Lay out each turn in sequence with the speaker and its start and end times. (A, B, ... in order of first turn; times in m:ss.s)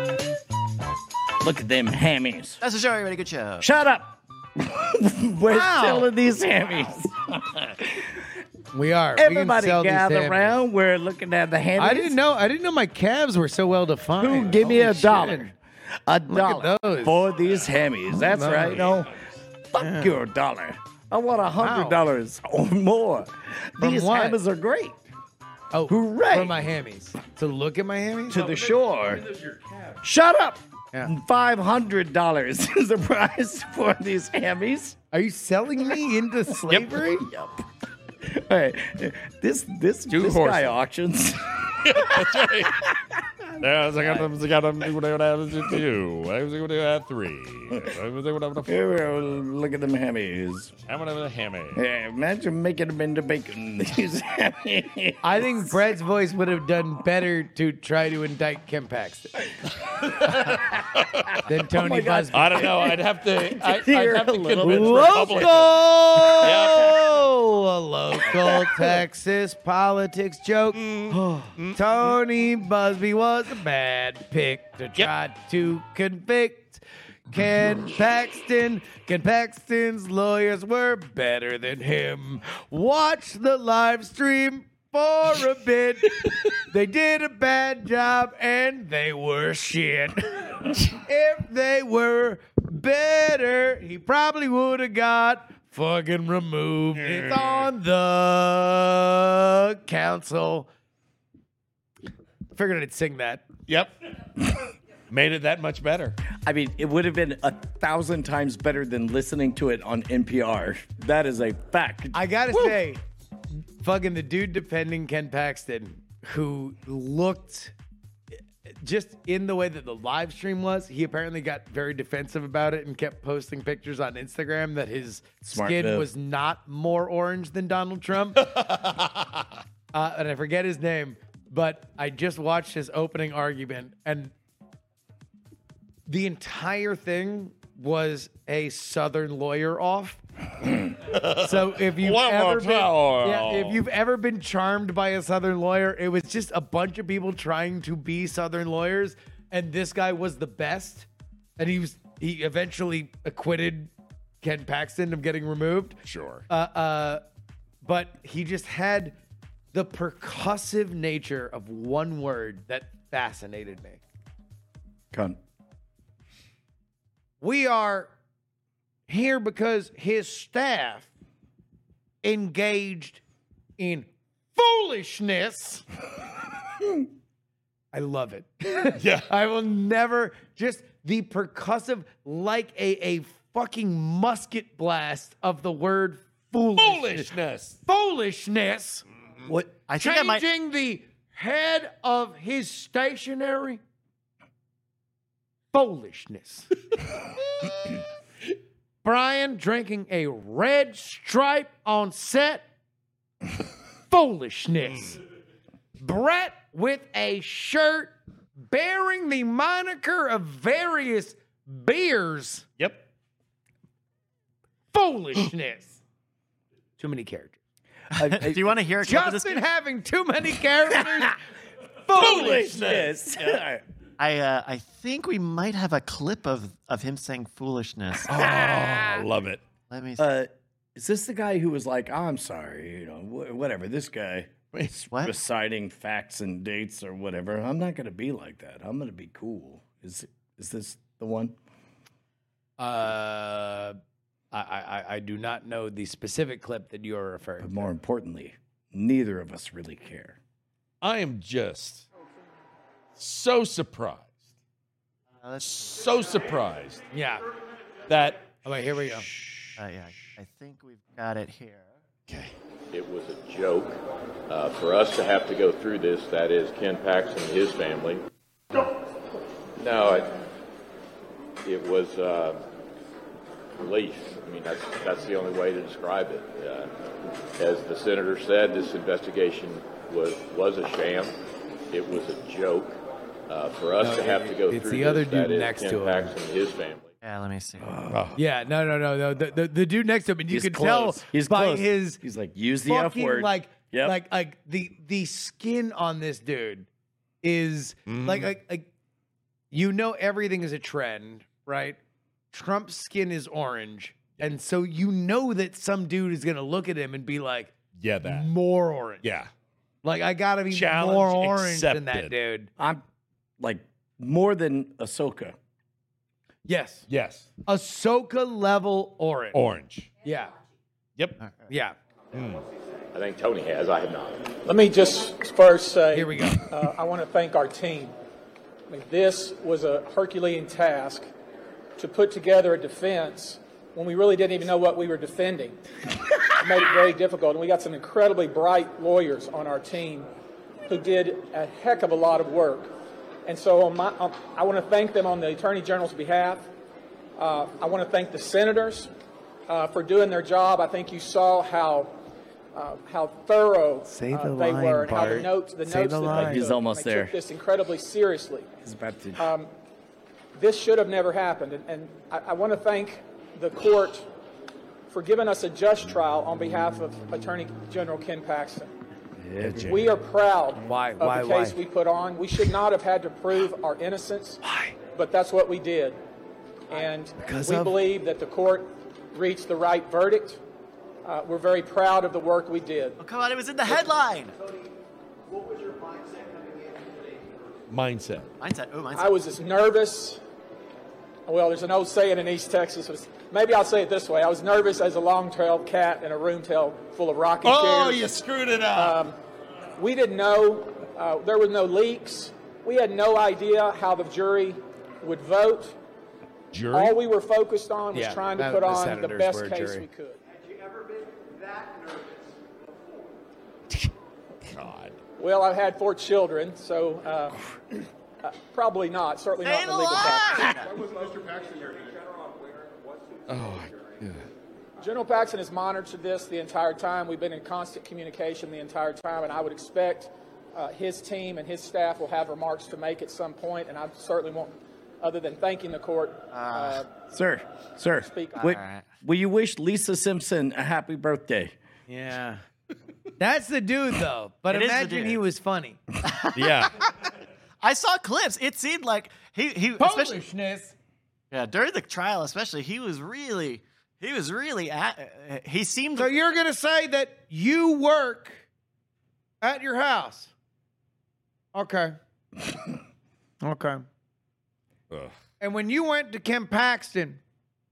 0:01.4-0:02.6 A
0:02.6-0:03.7 B
0:03.6-0:08.3 A
0:05.4-0:06.1 C
0:08.7-0:10.6 C
0:09.1-0:12.2 A
0:11.8-0:15.5 C
0:14.2-0:15.5 A
0:16.0-0:19.1 A
0:16.3-0:17.3 C
0:18.3-0:19.0 C
0:19.7-0:25.0 A
0:21.6-0:22.0 C
0:23.8-0:24.4 C
0:25.7-0:28.4 C
0:25.9-0:26.6 A
0:28.3-0:29.2 A
0:28.3-0:30.0 D
0:30.0-0:35.0 A
0:35.1-0:37.3 C
0:36.7-0:37.5 A
0:38.2-0:42.9 A
0:40.1-0:40.7 D
0:41.8-0:42.9 D
0:43.5-0:48.8 D
0:47.7-0:48.0 A
0:48.6-0:50.7 A
0:50.9-0:51.8 D
0:51.7-0:55.7 A
0:55.2-0:59.5 C
0:59.9-1:01.4 D
1:01.4-1:02.7 C
1:01.7-1:05.6 A
1:02.3-1:07.0 D
1:04.6-1:10.9 C
1:06.3-1:07.0 A
1:08.3-1:08.9 A
1:10.7-1:11.8 D
1:11.1-1:11.5 A
1:11.7-1:40.7 C
1:37.0-1:37.6 D
1:42.5-1:43.4 C
1:43.7-1:43.9 D
1:45.1-1:46.1 D
1:46.4-1:52.6 A
1:52.1-1:53.0 C
1:53.8-1:57.7 C
1:58.7-2:08.6 C
2:05.4-2:06.1 A
2:08.6-2:08.9 D
2:09.9-2:14.3 C
2:16.1-2:20.2 C
2:21.0-2:23.8 D
2:21.4-2:31.1 C
2:31.6-2:33.9 C
2:34.4-2:37.2 C
2:36.0-2:36.4 D
2:37.8-2:39.1 C
2:39.7-2:44.0 C
2:45.1-2:45.4 A
2:47.4-2:48.1 C
2:49.1-2:51.1 C
2:52.2-2:53.2 C
2:53.8-2:55.8 C
2:57.9-3:07.3 C
2:59.0-2:59.3 D
3:06.8-3:07.8 D
3:07.8-3:09.0 C
3:09.9-3:10.4 B
3:10.0-3:13.8 C
3:15.7-3:16.7 C
3:19.0-3:22.6 C
3:24.1-3:25.2 C
3:26.0-3:32.7 C
3:34.9-3:36.0 C
3:37.0-3:37.6 C
3:38.1-3:38.7 A
3:38.1-3:39.6 B
3:39.0-3:41.4 C
3:40.9-3:41.3 A
3:42.0-3:43.2 C
3:42.1-3:43.8 A
3:44.2-3:48.5 B
3:48.2-3:49.6 D
3:49.9-3:50.2 B
3:50.2-4:01.5 A
3:54.7-3:55.0 D
4:02.8-4:04.0 C
4:04.5-4:07.9 C
4:07.6-4:10.4 A
4:11.0-4:12.1 D
4:13.2-4:14.3 D
4:15.4-4:15.8 B
4:15.6-4:17.0 D
4:17.1-4:17.4 C
4:18.1-4:18.6 D
4:18.6-4:19.3 C
4:19.4-4:19.7 D
4:19.8-4:21.9 B
4:22.3-4:22.5 D
4:22.9-4:28.9 E
4:29.8-4:30.4 E
4:31.6-4:32.6 E
4:33.8-4:36.9 E
4:37.6-4:41.4 E
4:41.9-4:47.1 E
4:44.0-4:46.3 C
4:47.2-4:47.9 B
4:47.8-4:48.3 A
4:48.1-4:48.4 D
4:48.3-4:52.2 C
4:50.5-4:54.2 A
4:52.8-4:56.9 C
4:57.4-4:58.9 C
4:58.1-4:58.5 D
4:59.7-5:02.0 C
5:02.5-5:09.3 C
5:08.0-5:08.5 D
5:09.2-5:09.5 D
5:10.0-5:12.7 C
5:10.7-5:12.3 D
5:12.8-5:13.0 A
5:13.6-5:15.6 A
5:16.6-5:17.0 C
5:17.1-5:17.5 D
5:17.6-5:19.6 C
5:19.5-5:20.1 D
5:20.2-5:20.5 C
5:21.7-5:22.0 C
5:22.3-5:22.6 D
5:23.1-5:24.6 E
5:24.6-5:28.1 F
5:26.1-5:26.6 C
5:28.9-5:31.2 F
5:32.0-5:35.8 F
5:36.5-5:40.3 F
5:40.9-5:42.9 F
5:43.4-5:46.7 F
5:47.4-5:49.1 F
5:49.7-5:52.2 F
5:52.7-5:58.7 F
5:54.1-5:56.6 C
5:56.3-5:57.3 A
5:58.8-5:59.5 A
5:59.4-5:59.7 F
6:00.5-6:04.3 F
6:05.1-6:08.9 F
6:09.4-6:10.0 A
6:09.6-6:10.1 D
6:09.8-6:14.6 F
6:10.8-6:11.8 C
6:14.6-6:14.9 C
6:15.1-6:16.2 F
6:16.9-6:20.6 F
6:17.4-6:18.0 C
6:21.2-6:23.2 F
6:23.2-6:24.6 B
6:27.9-6:28.5 D
6:28.6-6:29.4 B
6:29.1-6:30.4 F
6:31.5-6:38.4 F
6:37.6-6:39.2 D
6:38.9-6:39.4 F
6:40.0-6:46.0 F
6:46.7-6:47.2 D
6:46.9-6:50.4 F
6:48.1-6:50.0 C
6:54.6-6:55.2 D
6:55.4-6:57.6 F
6:58.4-7:00.8 F
6:59.6-7:01.0 B
7:03.5-7:04.4 D
7:05.0-7:17.1 F
7:16.5-7:17.0 B
7:17.3-7:21.7 A
7:18.2-7:18.7 F
7:18.6-7:19.0 B
7:22.1-7:22.6 C
7:23.4-7:26.0 C
7:24.7-7:25.4 B
7:26.2-7:27.3 B
7:26.5-7:26.9 D
7:27.8-7:30.4 B
7:30.0-7:30.9 C
7:31.5-7:36.3 B
7:36.2-7:38.6 C
7:39.6-7:40.5 C
7:41.7-7:42.2 C
7:43.6-7:44.0 C
7:45.6-7:47.4 C